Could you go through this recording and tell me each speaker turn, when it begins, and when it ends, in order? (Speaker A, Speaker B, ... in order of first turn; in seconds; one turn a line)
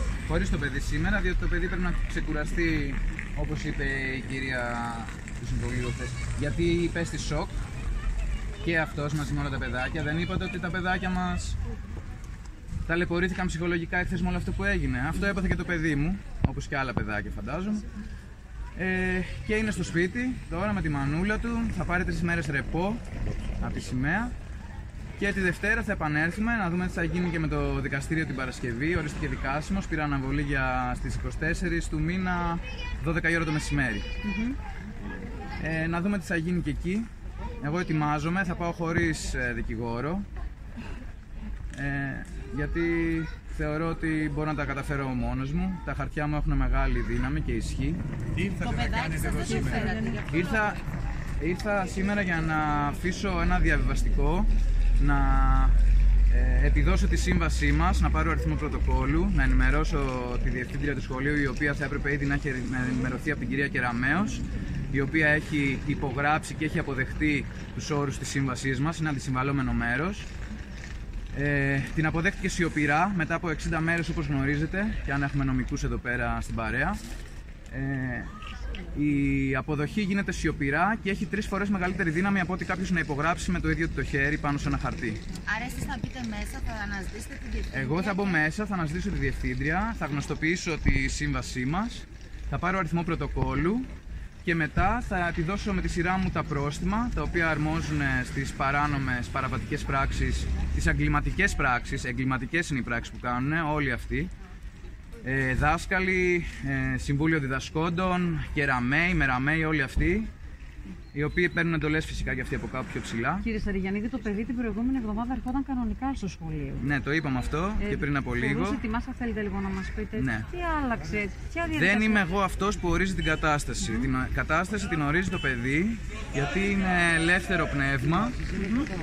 Speaker A: 0.3-7.6
Speaker A: 8.6-11.6
Speaker A: 12.9-17.9
Speaker A: 18.8-23.0
Speaker A: 23.6-24.3
Speaker A: 25.2-34.1
Speaker B: 34.2-34.6
Speaker A: 35.6-37.1
Speaker A: 37.6-40.3
Speaker A: 41.7-48.0
Speaker C: 48.4-50.8
Speaker B: 49.5-50.2
Speaker A: 50.3-50.8
Speaker A: 51.4-55.8
Speaker A: 56.3-70.3
Speaker A: 71.3-77.0
Speaker A: 77.7-78.3
Speaker A: 78.9-85.2
Speaker C: 85.5-88.4
Speaker A: 87.7-93.9
Speaker A: 94.4-104.3
Speaker A: 105.2-110.3
Speaker A: 111.1-113.5
Speaker B: 113.4-116.9
Speaker A: 116.8-118.8
Speaker B: 117.8-122.2
Speaker A: 120.2-120.5
Speaker A: 121.7-128.5
Speaker B: 123.8-124.1
Speaker B: 128.6-128.9